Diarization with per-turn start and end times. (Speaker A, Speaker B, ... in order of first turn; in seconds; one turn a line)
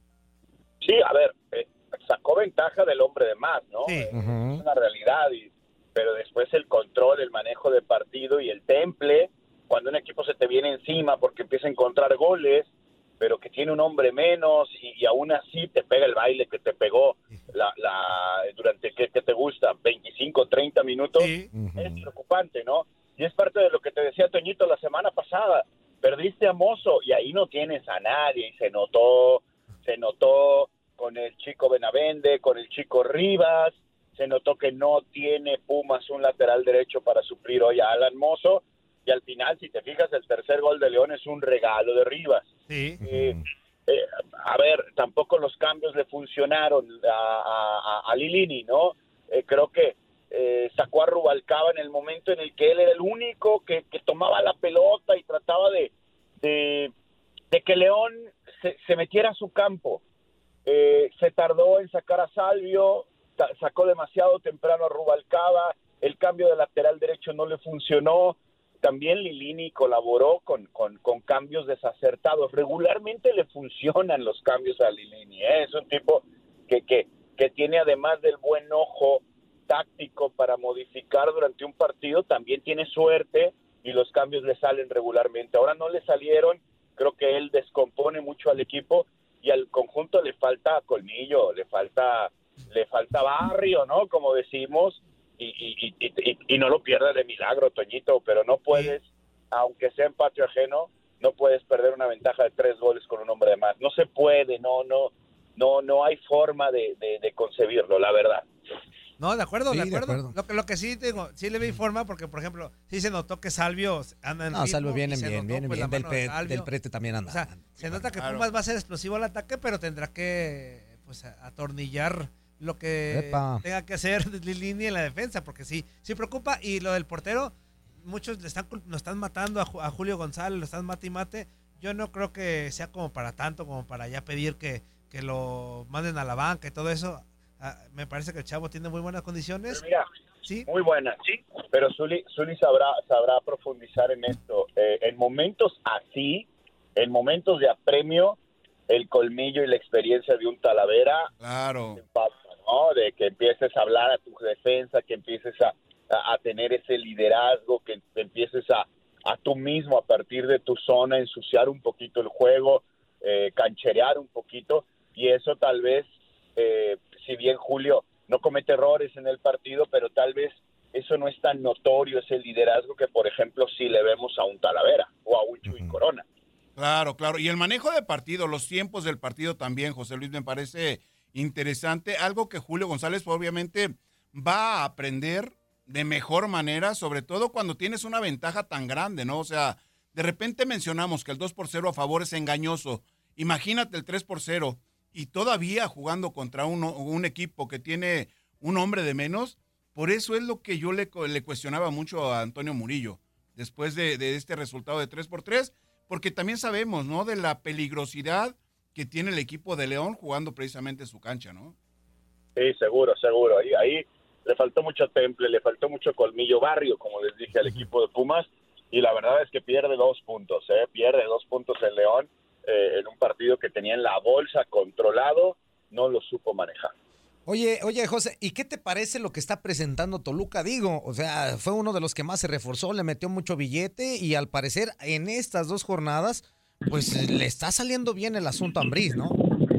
Speaker A: 0.8-12.7
Speaker B: 4.1-4.6
Speaker A: 13.2-42.5
Speaker C: 21.2-21.5
Speaker B: 21.5-22.0
Speaker C: 42.7-43.0
Speaker B: 43.0-43.4
Speaker A: 43.0-43.3
Speaker A: 43.9-56.9
Speaker A: 57.5-60.0
Speaker A: 60.6-108.5
Speaker C: 109.2-116.7
Speaker B: 109.7-110.3
Speaker B: 114.5-117.7
Speaker C: 117.3-139.8
Speaker D: 117.8-118.5
Speaker B: 123.1-123.6
Speaker A: 139.7-140.0
Speaker A: 140.7-148.4
Speaker A: 148.9-151.3
Speaker D: 151.4-152.0
Speaker A: 152.0-176.2
Speaker B: 175.7-175.9
Speaker D: 176.8-211.7
Speaker A: 212.6-226.9
Speaker B: 227.5-239.4